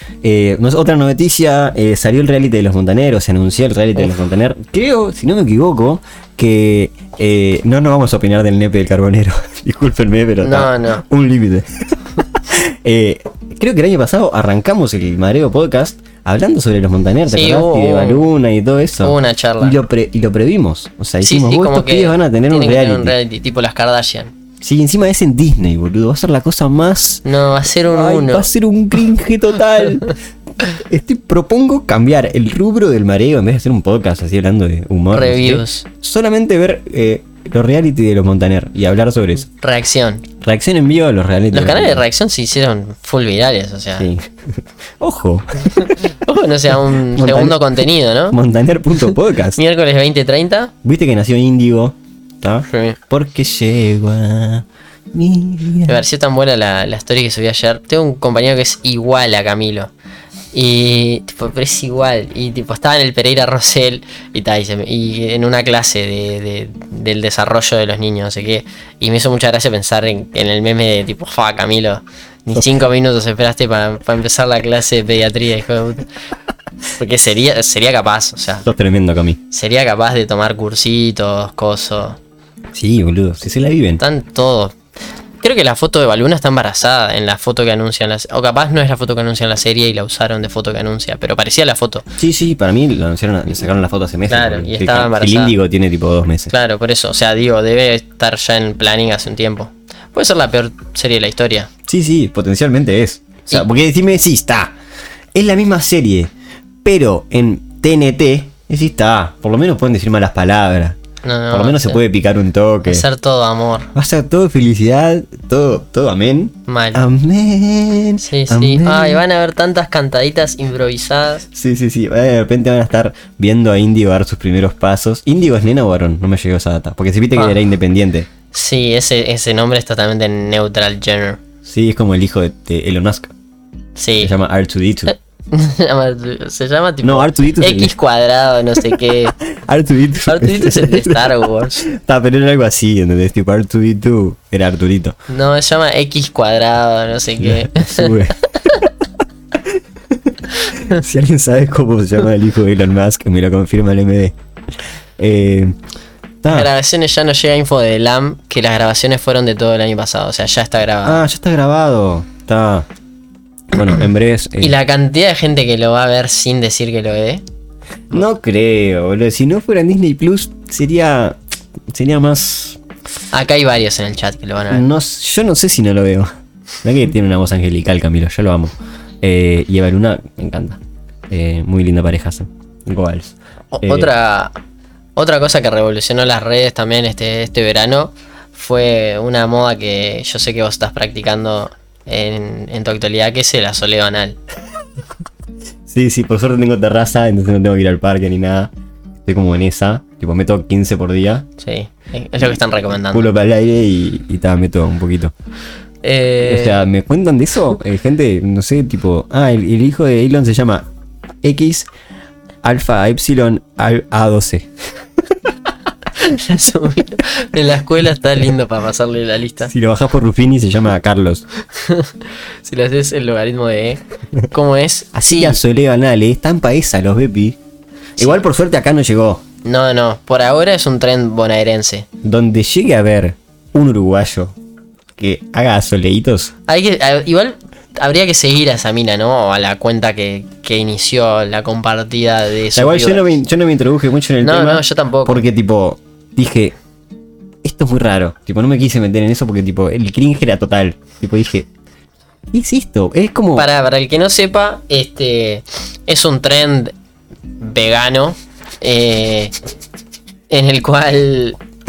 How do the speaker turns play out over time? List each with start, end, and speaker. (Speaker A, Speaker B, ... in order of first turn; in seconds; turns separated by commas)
Speaker A: 0.2-23.1, Speaker B: 10.4-11.0, Speaker B: 17.3-18.2, Speaker B: 19.0-19.8, Speaker B: 21.2-24.3, Speaker A: 24.6-27.2, Speaker B: 27.2-28.5, Speaker A: 27.8-39.5, Speaker B: 35.1-35.8, Speaker B: 39.6-40.2, Speaker A: 40.4-42.0, Speaker B: 41.5-44.1, Speaker A: 44.0-44.2, Speaker A: 45.0-46.0, Speaker B: 45.8-48.4, Speaker A: 47.1-49.6, Speaker B: 49.1-50.7, Speaker A: 50.8-56.0, Speaker B: 52.7-53.0, Speaker B: 55.9-59.9, Speaker B: 60.5-76.1, Speaker B: 76.9-78.7, Speaker A: 78.6-79.4, Speaker B: 79.5-82.2, Speaker A: 82.7-84.0, Speaker B: 84.0-84.7, Speaker B: 85.4-92.1, Speaker A: 92.2-96.5, Speaker B: 94.3-95.5, Speaker B: 96.5-101.7, Speaker A: 101.8-104.7, Speaker A: 105.3-106.3, Speaker A: 106.8-111.0, Speaker B: 111.2-112.0, Speaker A: 111.5-113.0, Speaker B: 112.8-113.9, Speaker A: 113.9-119.2, Speaker B: 116.7-117.0, Speaker B: 118.2-121.5, Speaker A: 121.5-128.3, Speaker B: 128.5-131.4, Speaker A: 131.6-133.3, Speaker B: 134.0-134.3, Speaker A: 134.2-135.1, Speaker B: 135.1-139.3, Speaker A: 137.0-137.9, Speaker A: 138.8-145.2, Speaker B: 140.2-141.8, Speaker B: 145.3-148.8, Speaker A: 147.4-148.8, Speaker A: 149.7-154.3, Speaker A: 155.2-155.8, Speaker A: 156.4-156.7, Speaker B: 156.5-161.2, Speaker A: 161.0-162.9, Speaker A: 163.7-164.8, Speaker B: 164.6-167.4, Speaker A: 168.1-171.4, Speaker A: 171.9-172.8, Speaker B: 173.3-174.8, Speaker A: 174.7-176.3, Speaker A: 176.8-184.1, Speaker B: 183.7-184.5, Speaker B: 185.2-194.4, Speaker A: 195.9-198.7, Speaker A: 199.2-201.5, Speaker B: 201.6-203.3, Speaker A: 203.0-205.3, Speaker B: 206.0-206.8, Speaker A: 206.4-210.9, Speaker A: 211.4-211.9, Speaker A: 212.6-214.7, Speaker B: 216.2-219.7, Speaker A: 219.7-221.4, Speaker B: 221.7-225.6, Speaker A: 225.1-227.6, Speaker A: 228.2-229.4, Speaker B: 229.6-232.1, Speaker A: 232.2-234.6, Speaker A: 235.2-236.5, Speaker B: 236.7-243.3, Speaker A: 242.7-246.7, Speaker B: 244.4-245.4, Speaker A: 247.6-251.7, Speaker A: 252.5-253.7, Speaker B: 253.5-256.9, Speaker B: 257.6-259.5, Speaker B: 260.5-261.6